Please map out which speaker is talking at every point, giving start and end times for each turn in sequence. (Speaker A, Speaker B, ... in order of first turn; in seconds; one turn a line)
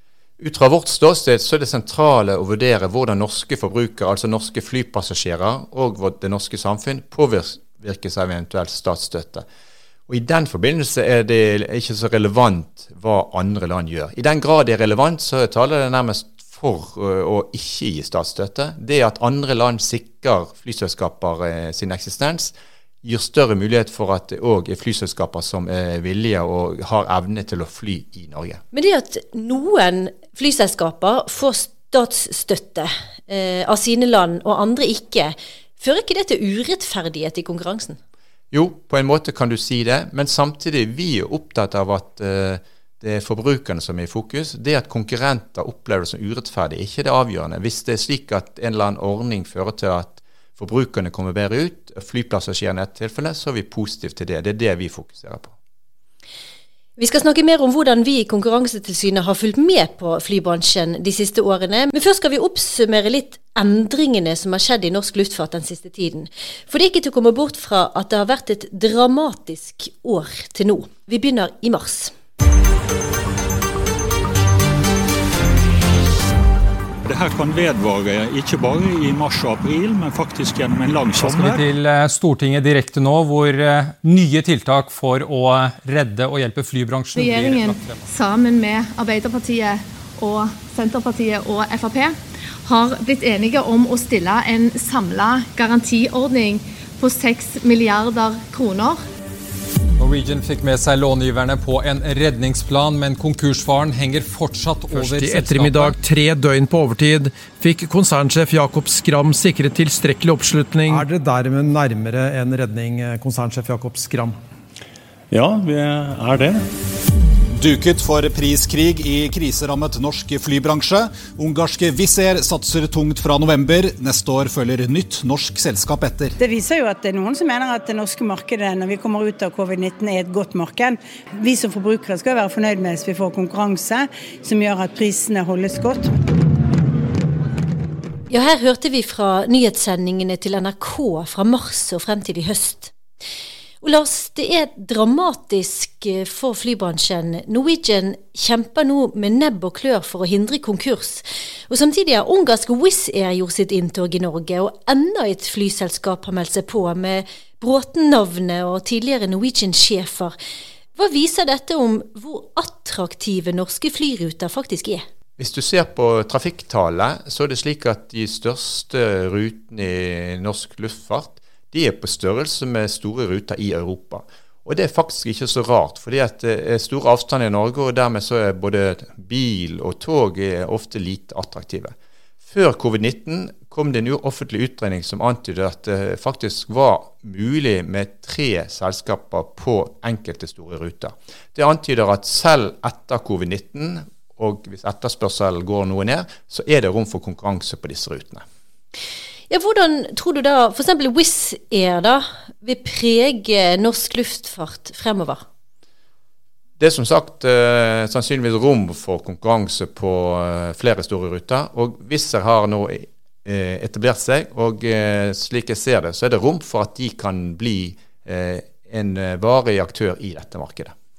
Speaker A: 0.4-9.4
Speaker A: 10.1-28.6
Speaker B: 28.7-38.0
Speaker A: 38.5-55.5
Speaker B: 57.0-72.1
Speaker C: 77.0-81.6
Speaker D: 81.1-88.0
Speaker E: 87.2-99.0
Speaker D: 100.0-106.0
Speaker F: 104.9-114.4
Speaker G: 115.3-116.6
Speaker G: 117.6-126.3
Speaker H: 126.4-136.1
Speaker B: 138.3-142.9
Speaker B: 143.8-160.3
Speaker B: 161.0-165.0
Speaker A: 165.4-181.9
Speaker A: 182.5-198.4
Speaker B: 199.5-205.4
Speaker A: 206.8-220.9